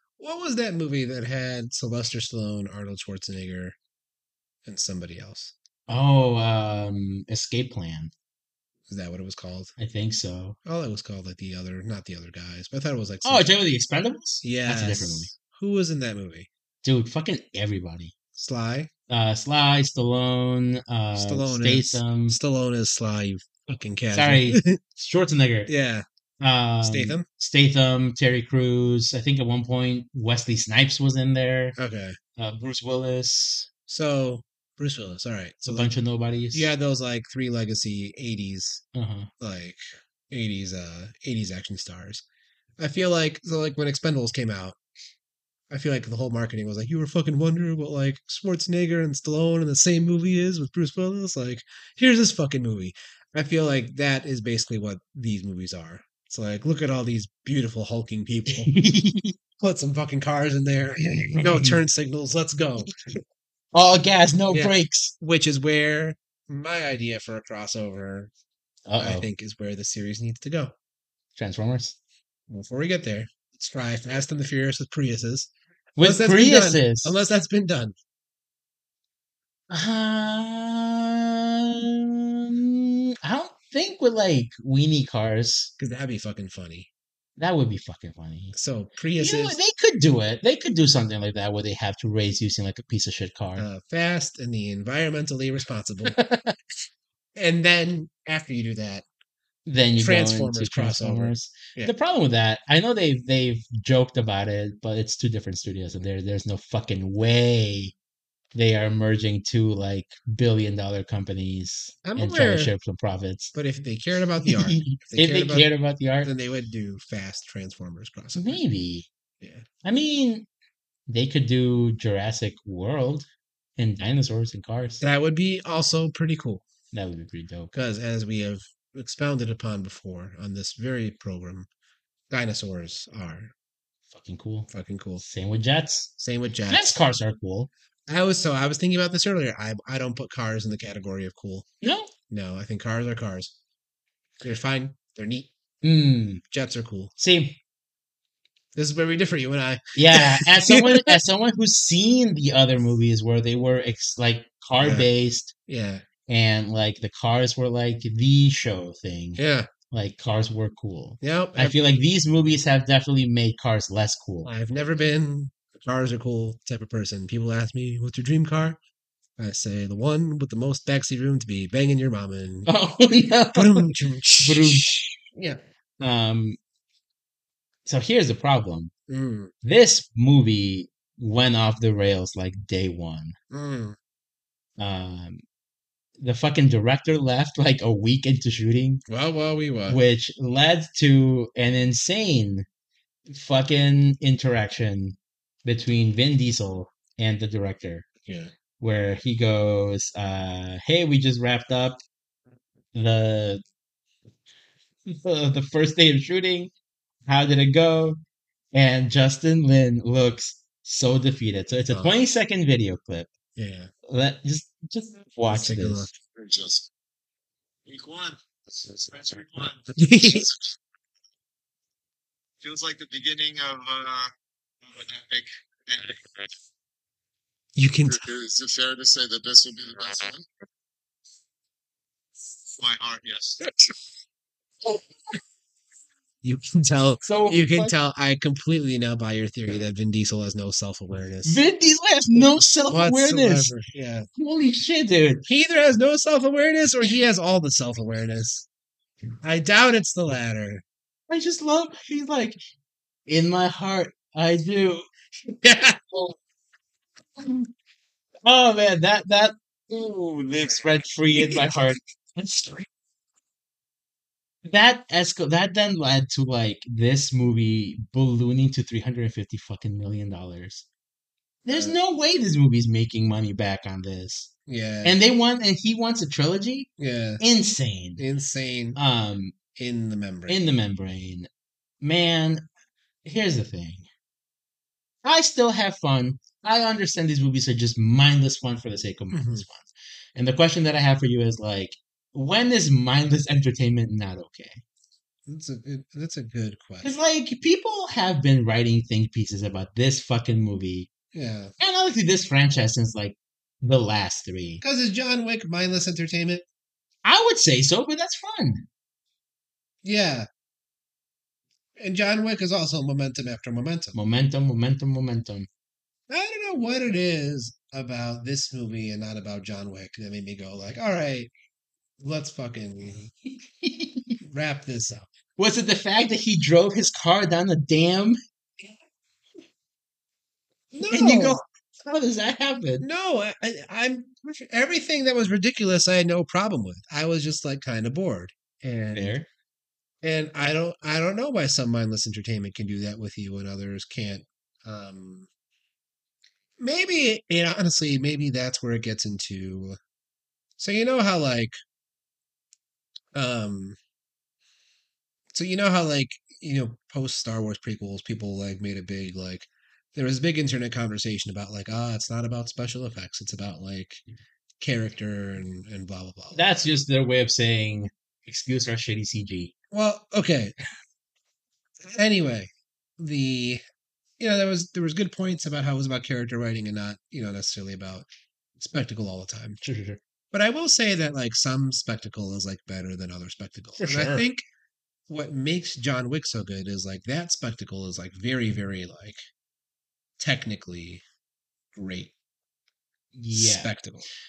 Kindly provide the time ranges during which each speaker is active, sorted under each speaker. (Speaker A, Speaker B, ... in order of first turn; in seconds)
Speaker A: 0.2-3.8, 4.7-5.5, 8.9-9.7, 10.7-13.5, 14.4-16.5, 18.4-18.9, 21.1-24.8, 25.7-26.0, 26.8-27.2, 31.8-32.2, 33.9-35.9, 36.5-38.8, 39.4-42.2, 42.8-44.8, 45.7-58.7, 59.6-63.0, 64.5-68.3, 69.0-70.7, 72.5-78.0, 85.8-86.9, 88.5-89.6, 93.6-96.2, 97.3-99.0, 100.0-101.9, 112.0-112.7, 113.5-115.7, 116.2-118.6, 125.0-126.7, 127.7-131.7, 132.3-133.5, 134.7-135.2, 136.2-136.9, 138.1-141.7, 142.3-143.5, 144.4-145.5, 146.5-147.1, 148.8-151.1, 154.8-155.1, 155.7-156.0, 159.4-159.7, 161.2-161.8, 164.4-168.8, 169.4-172.7, 173.5-175.6, 179.1-179.5, 183.5-184.0, 189.1-190.0, 198.3-198.5, 211.9-212.2, 213.6-213.9, 215.5-216.1, 220.0-220.5, 227.8-228.3, 236.4-241.6, 242.3-244.3, 245.5-248.7, 249.4-250.8, 255.6-256.1, 271.7-272.0, 274.7-275.2, 277.0-277.4, 278.2-279.0, 279.8-280.6, 289.3-289.6, 295.5-297.1, 301.3-301.7, 304.8-306.6, 310.0-310.5, 312.0-314.1, 316.3-321.5, 322.2-323.3, 324.4-325.3, 330.9-331.6, 333.0-339.4, 340.2-345.5, 346.8-350.0, 350.8-351.8, 353.3-354.0, 355.5-364.2, 364.8-366.6, 369.9-370.8, 372.1-373.8, 374.4-378.3, 378.8-379.8, 380.5-384.6, 385.3-389.4, 390.4-391.2, 392.0-392.3, 393.5-394.2
Speaker B: 5.9-8.1, 9.8-10.6, 13.2-15.3, 16.8-18.1, 19.1-22.4, 24.1-25.7, 26.4-31.8, 32.4-33.7, 35.7-36.7, 38.9-39.3, 58.5-59.4, 61.0-61.8, 63.7-65.1, 68.9-69.3, 71.4-72.0, 76.0-77.2, 79.7-85.7, 87.4-88.5, 89.2-93.7, 96.0-96.6, 99.7-107.9, 108.5-113.5, 114.4-116.3, 118.3-119.1, 119.8-120.5, 121.1-125.0, 126.9-127.7, 134.1-134.7, 135.2-136.1, 136.7-137.7, 141.8-142.1, 145.8-146.4, 147.2-147.6, 150.0-155.5, 156.3-159.4, 159.9-164.5, 172.7-173.9, 174.4-174.9, 176.0-176.6, 177.9-178.9, 179.6-183.4, 184.8-185.4, 186.2-189.0, 189.9-192.7, 193.3-198.1, 198.8-202.0, 202.9-203.6, 205.1-206.7, 207.3-208.2, 208.7-213.3, 214.1-216.1, 237.2-237.9, 241.4-243.7, 244.4-245.4, 251.3-252.6, 253.3-255.1, 258.4-262.9, 264.6-270.9, 271.6-274.5, 275.0-276.9, 277.4-278.2, 279.0-279.6, 280.5-281.5, 282.0-282.6, 283.2-284.1, 285.2-294.8, 297.0-301.1, 301.8-304.8, 307.2-308.9, 314.1-315.7, 323.8-324.4, 325.6-328.4, 331.1-333.1, 339.1-339.5, 366.5-369.7, 379.8-380.2, 384.0-384.4, 393.4-393.9
Speaker C: 216.3-216.9, 217.9-220.5, 222.6-224.3, 224.8-226.5, 228.1-230.4, 232.8-233.6